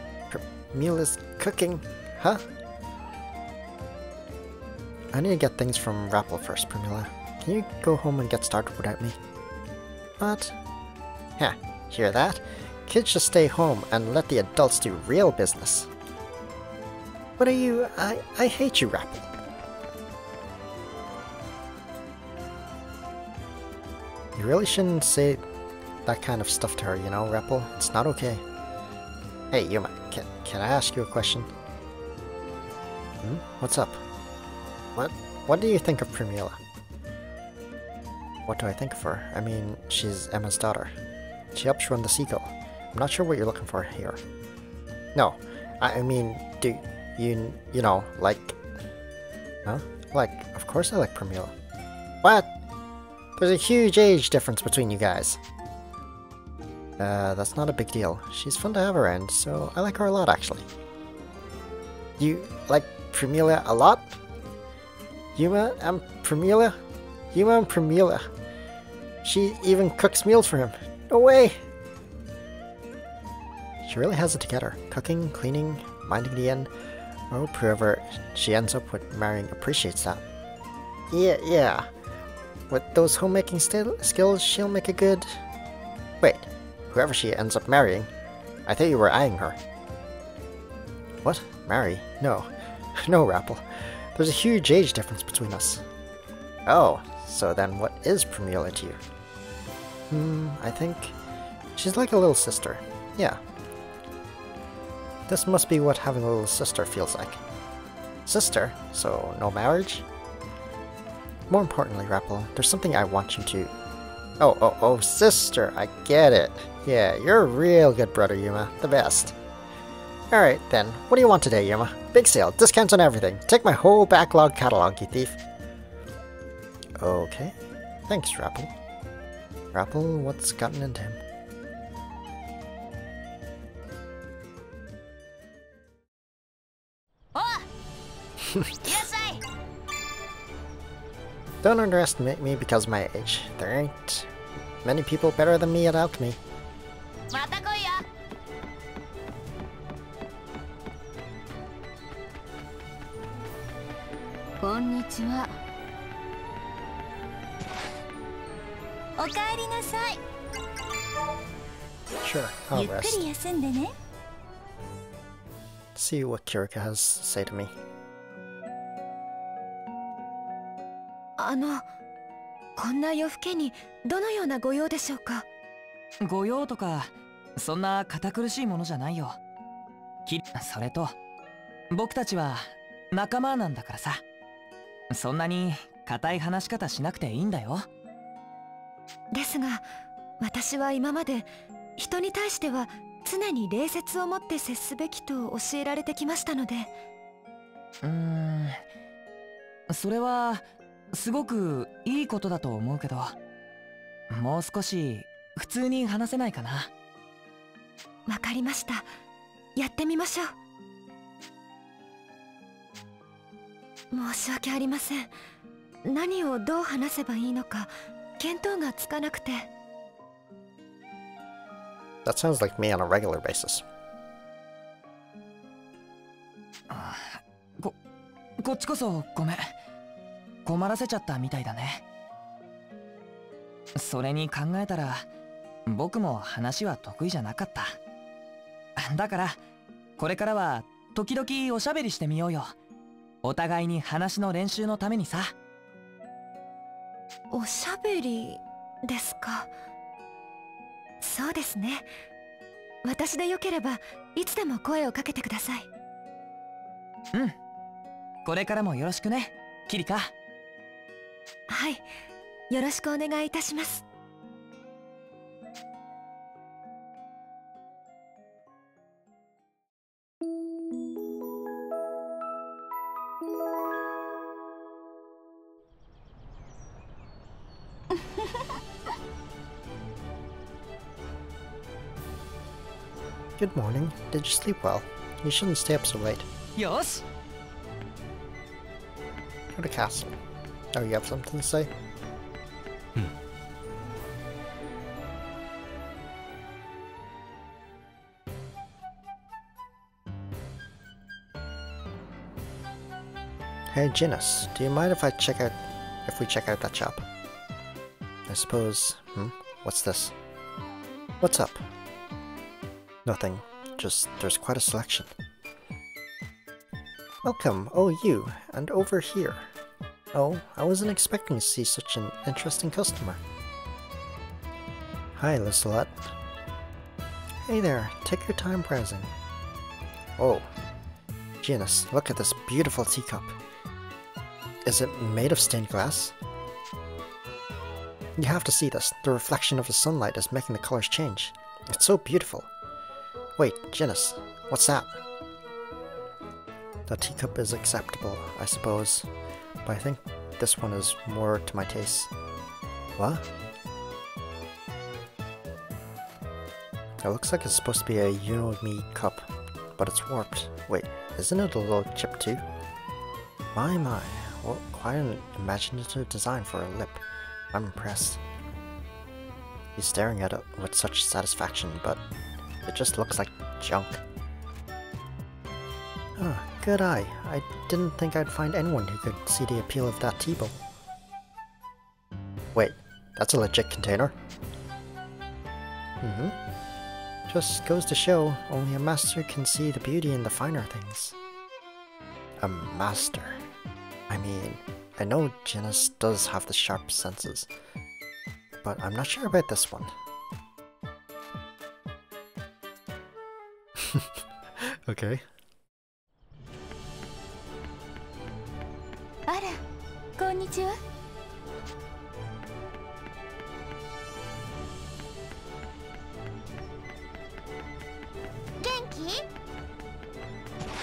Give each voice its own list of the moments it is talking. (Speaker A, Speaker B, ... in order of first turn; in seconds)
Speaker A: 0.3-2.4, 5.1-9.2, 10.2-10.6, 11.4-15.9, 17.4-19.3, 24.4-25.4, 26.1-28.4, 29.5-31.5, 33.2-34.0, 34.9-36.6, 38.5-40.9, 41.5-44.2, 45.1-48.6, 49.6-51.5, 52.2-52.5, 53.4-55.4, 57.0-60.7, 62.2-64.2, 65.3-66.8, 67.3-68.3, 69.2-71.6, 73.8-76.7, 77.3-80.2, 81.1-81.9, 82.7-85.4, 86.2-88.1, 88.7-89.6, 91.2-95.8, 96.7-99.0, 100.1-101.2, 101.7-103.4, 105.3-107.4, 108.2-110.0, 111.5-113.7, 114.4-119.3, 120.3-125.4, 127.0-127.5, 128.1-128.7, 129.7-131.2, 141.6-144.3, 144.8-146.4, 162.2-163.3, 165.9-167.7, 222.2-223.8, 283.6-286.4, 289.7-290.4, 290.9-291.9, 303.9-307.2, 308.5-310.3, 311.4-311.8, 313.2-315.3, 317.4-319.7, 320.3-323.4, 325.4-326.3, 327.6-329.3, 330.4-330.7, 331.6-333.5, 334.8-336.3, 338.4-342.7, 343.6-345.2, 347.1-349.3, 349.8-352.3, 353.2-353.5, 357.2-362.6, 363.7-368.4, 369.9-372.2, 372.8-374.2, 376.4-380.8, 382.7-384.4, 386.2-386.6, 387.5-391.4, 392.6-393.6, 394.3-397.7, 398.8-400.1, 403.9-405.4
Speaker B: 137.3-137.7, 138.8-139.4, 147.3-148.0, 154.6-155.5, 159.2-160.2, 162.7-163.9, 409.5-409.8, 410.4-411.0, 418.8-419.4
Speaker C: 171.4-171.9, 172.8-175.4, 189.3-189.9, 190.4-196.9, 208.3-209.1, 209.8-210.5, 214.1-215.3, 216.1-219.7, 247.5-249.7, 251.2-252.1, 253.0-255.9, 261.7-262.0, 262.7-264.0
Speaker D: 176.2-179.4, 180.2-181.2, 181.9-184.2, 185.1-187.9, 198.0-198.8, 199.9-203.3, 204.3-206.9, 226.9-227.9, 228.6-229.7, 230.7-232.0, 233.9-235.2, 235.8-238.0, 239.0-239.6, 240.2-242.7, 243.4-245.5, 258.4-260.3, 286.8-287.2